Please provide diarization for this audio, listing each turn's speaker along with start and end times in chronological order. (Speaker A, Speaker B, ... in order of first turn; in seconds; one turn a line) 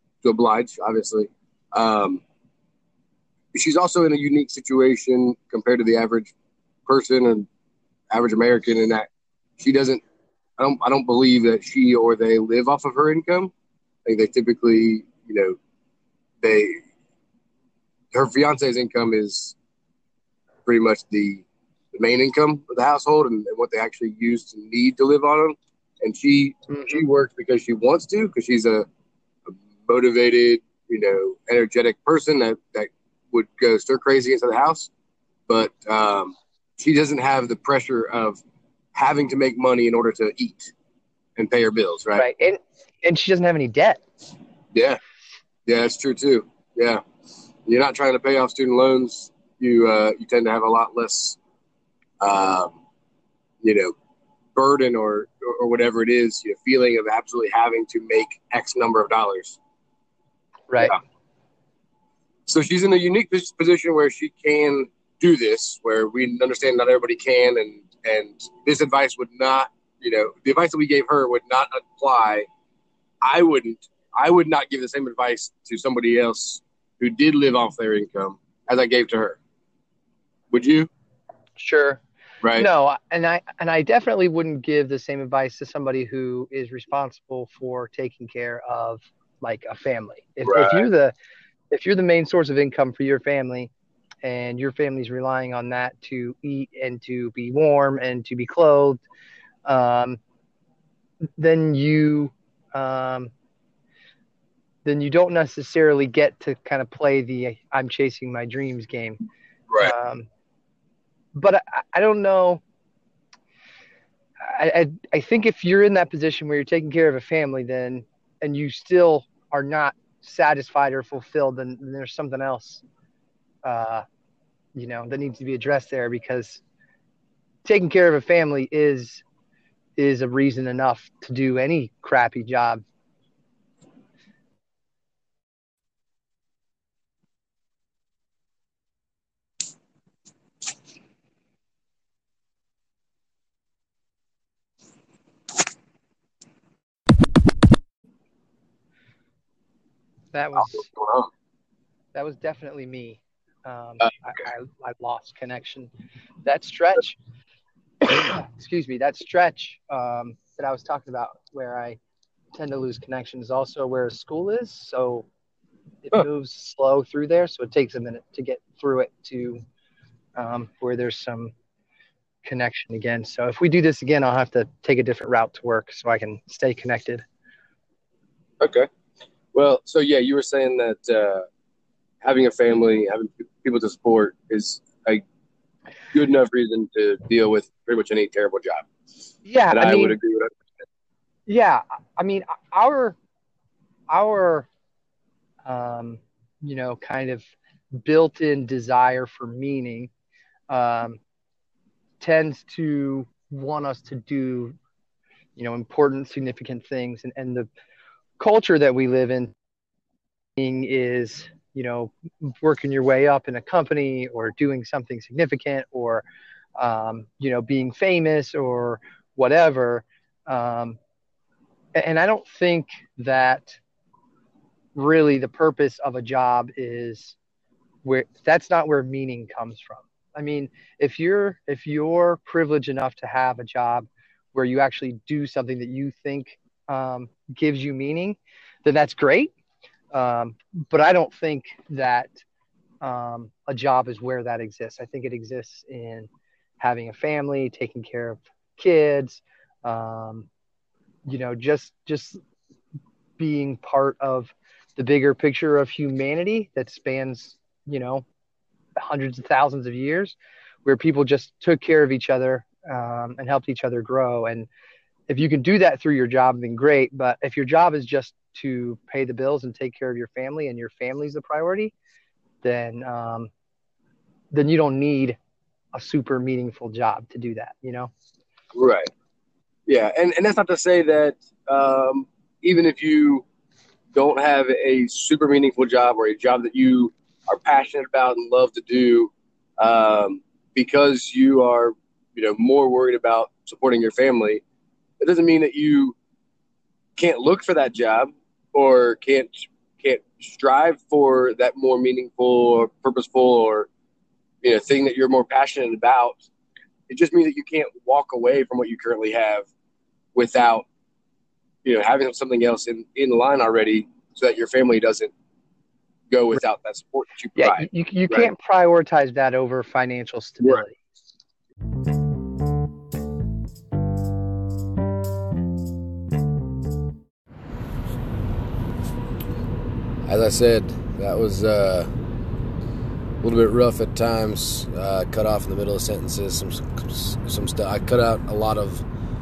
Speaker A: 0.2-2.2
Speaker A: 3.5-6.3
Speaker A: 6.9-7.5
Speaker A: 8.1-9.1
Speaker A: 9.6-10.0
Speaker A: 10.6-13.5
Speaker A: 14.0-15.6
Speaker A: 16.4-16.8
Speaker A: 18.1-19.6
Speaker A: 20.6-28.9
Speaker A: 29.9-34.9
Speaker A: 35.5-38.4
Speaker A: 38.9-40.7
Speaker A: 41.4-42.2
Speaker B: 42.1-44.0
Speaker A: 44.7-45.0
Speaker A: 45.6-47.0
Speaker A: 47.6-51.4
Speaker A: 52.2-52.7
Speaker A: 53.6-53.9
Speaker A: 54.5-59.6
Speaker B: 60.7-60.9
Speaker A: 62.5-72.5
Speaker A: 73.2-79.4
Speaker A: 80.5-80.9
Speaker B: 81.6-82.0
Speaker A: 82.4-82.7
Speaker B: 82.5-91.1
Speaker A: 90.4-90.8
Speaker B: 91.7-93.7
Speaker B: 94.2-99.0
Speaker B: 99.6-100.2
Speaker B: 101.4-103.3
Speaker B: 104.8-109.2
Speaker B: 109.8-110.3
Speaker B: 111.3-112.6
Speaker B: 114.4-122.8
Speaker B: 123.6-124.0
Speaker B: 124.7-126.6
Speaker B: 127.6-129.2
Speaker B: 130.0-132.8
Speaker B: 150.3-150.9
Speaker A: 150.6-151.3
Speaker B: 152.1-155.9
Speaker B: 156.4-157.2
Speaker B: 158.1-162.0
Speaker B: 162.5-165.3
Speaker B: 166.1-169.6
Speaker B: 170.3-171.5
Speaker B: 172.4-177.2
Speaker A: 178.6-178.9
Speaker A: 179.5-181.4
Speaker A: 182.2-185.2
Speaker A: 186.1-188.9
Speaker B: 189.4-190.2
Speaker A: 189.7-190.5
Speaker B: 191.5-193.2
Speaker B: 194.1-194.7
Speaker B: 195.7-200.1
Speaker B: 200.7-201.2
Speaker B: 202.2-204.8
Speaker B: 205.6-207.7
Speaker B: 208.4-209.5
Speaker B: 210.6-216.2
Speaker B: 216.8-221.0
Speaker B: 221.9-223.8
Speaker B: 224.9-227.4
Speaker B: 228.0-239.5
Speaker B: 240.1-242.3
Speaker B: 243.0-250.5
Speaker B: 251.2-252.4
Speaker B: 253.4-258.2
Speaker B: 259.0-264.7
Speaker B: 265.3-271.9
Speaker B: 272.6-273.5
Speaker B: 274.5-275.4
Speaker B: 275.9-278.1
Speaker A: 278.7-279.1
Speaker A: 279.9-283.4
Speaker A: 284.1-294.6
Speaker A: 295.2-296.1
Speaker A: 297.2-303.9
Speaker A: 304.6-306.4
Speaker A: 307.1-309.6
Speaker A: 310.3-310.9
Speaker A: 311.8-315.3
Speaker A: 316.3-318.5
Speaker B: 317.6-321.0
Speaker C: 330.2-332.1
Speaker C: 333.4-339.0